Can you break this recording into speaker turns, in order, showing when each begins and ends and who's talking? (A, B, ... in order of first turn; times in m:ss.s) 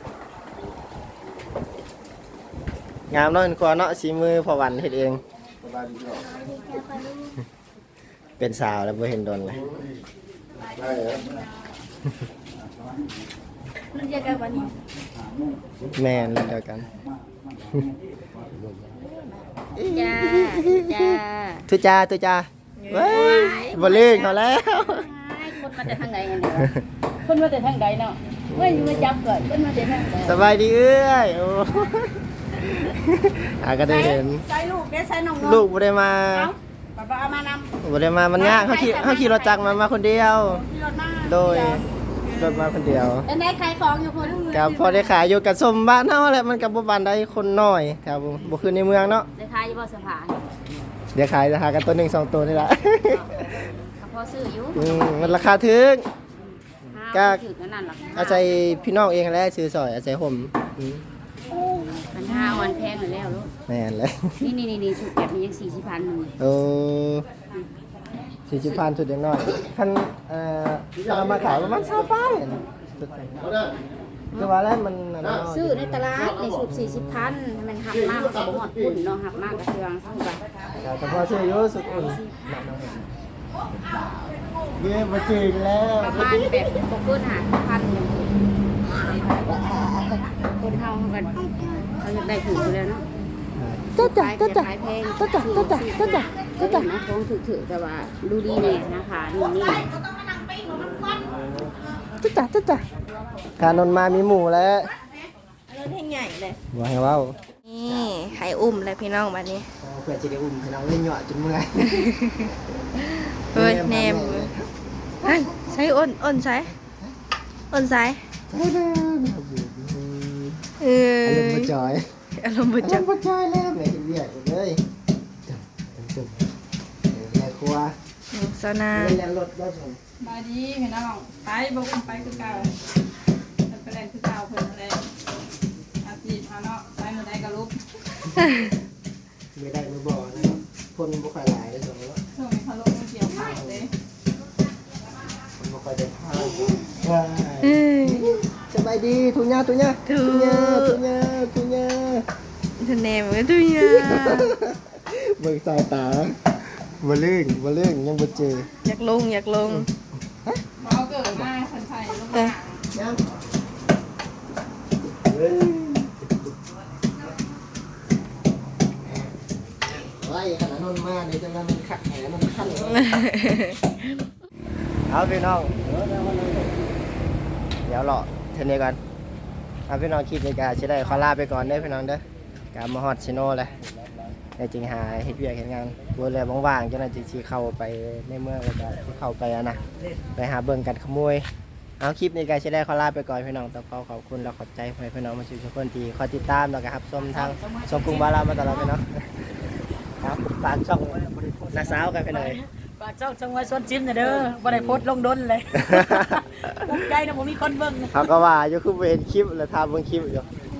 0:03.1-0:05.2 A
0:05.6-0:06.3 B
0:06.3-0:07.0 C
0:08.4-0:09.6 A
0:09.5-0:09.8 B
0:10.7-0:11.2 B
0:15.9-0:16.9 A
0:17.7-0:17.9 D
0:19.8-0:25.1 A
0:19.8-0:21.6 C
0:22.9-0:30.4 C
0:28.5-0:29.3 A
0:30.2-0:34.4 A
0:33.9-0:35.6 C
0:35.4-0:36.5 A
0:36.3-0:37.7 C
0:37.8-0:40.6 A
0:38.4-0:39.8 C
0:40.6-0:41.5 C
0:41.2-0:43.2 A
0:43.2-0:44.8 C
0:44.5-0:49.3 A
0:49.4-0:50.5 C
0:51.1-0:53.5 A
0:53.0-0:55.5 C
0:54.7-0:56.0 A
0:56.4-0:58.5 C
0:56.9-0:57.4 A
0:58.1-1:01.0 A
1:01.9-1:03.5 C
1:03.7-1:04.5 A
1:04.4-1:06.3 C
1:06.4-1:07.2 A
1:08.5-1:13.4 A
1:08.5-1:08.9 C
1:11.0-1:12.2 B
1:13.4-1:13.8 B
1:14.3-1:17.4 A
1:15.5-1:20.4 C
1:16.2-1:16.7 B
1:17.9-1:19.0 B
1:20.8-1:23.1 A
1:21.1-1:22.4 C
1:24.7-1:26.8 A
1:26.0-1:28.4 C
1:29.4-1:30.2 A
1:30.6-1:33.0 C
1:33.6-1:36.9 A
1:34.0-1:40.0 C
1:40.7-1:42.8 A
1:43.6-1:44.9 A
1:45.7-1:46.6 E
1:46.7-1:48.4 A
1:47.6-1:49.7 E
1:49.8-1:52.2 A
1:53.5-1:54.5 E
1:53.5-1:54.7 A
1:55.2-1:56.7 E
1:55.3-1:56.0 A
1:56.8-1:57.1 A
1:57.7-1:58.2 E
1:58.5-2:00.7 A
2:00.8-2:01.7 E
2:01.2-2:02.1 A
2:02.4-2:03.1 E
2:02.8-2:04.8 A
2:05.5-2:06.4 A
2:07.1-2:08.0 A
2:08.3-2:09.2 E
2:08.9-2:10.0 A
2:12.1-2:12.7 A
2:19.5-2:22.2 A
2:23.2-2:23.9 A
2:23.4-2:23.9 D
2:25.6-2:32.3 A
2:27.6-2:28.3 E
2:30.1-2:31.0 E
2:32.8-2:34.5 E
2:33.8-2:38.7 A
2:38.8-2:39.9 E
2:40.4-2:41.5 A
2:40.8-2:42.6 D
2:42.3-2:42.5 E
2:42.9-2:43.2 A
2:45.2-2:46.3 A
2:50.0-2:53.1 A
2:53.0-2:53.7 E
2:55.1-2:56.7 A
2:57.8-2:59.0 A
2:59.9-3:02.2 A
3:02.7-3:03.7 A
3:04.6-3:09.8 A
3:10.3-3:11.4 A
3:12.0-3:19.4 A
3:17.3-3:18.9 F
3:20.2-3:21.2 A
3:21.7-3:22.6 A
3:22.0-3:28.2 F
3:24.4-3:25.0 A
3:25.8-3:27.0 A
3:28.1-3:30.5 A